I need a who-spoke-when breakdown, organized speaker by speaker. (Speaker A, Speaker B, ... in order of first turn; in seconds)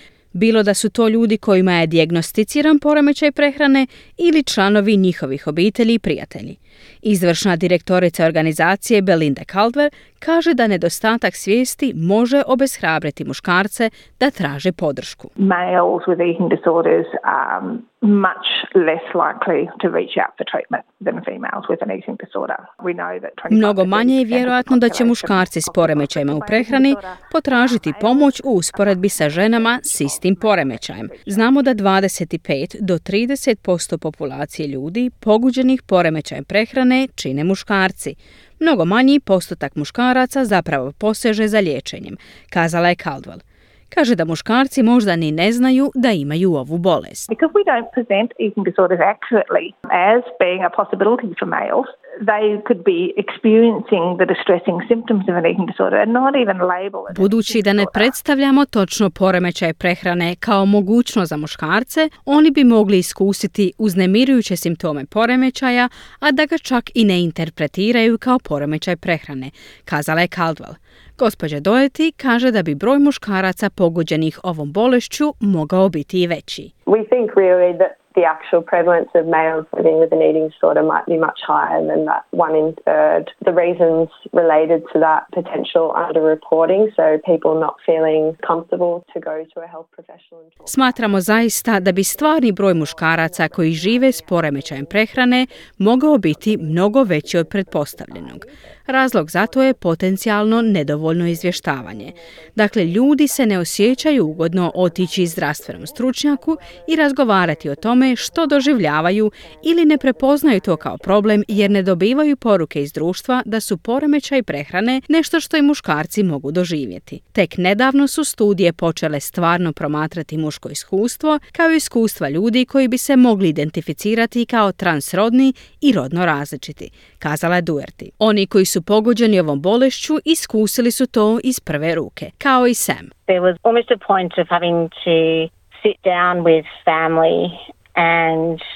Speaker A: 0.3-15.3, 23.5-47.3, 57.1-76.7, 90.7-133.1
Speaker B: 15.4-31.6, 47.3-58.1
Speaker C: 76.9-111.8
Speaker D: 133.3-138.6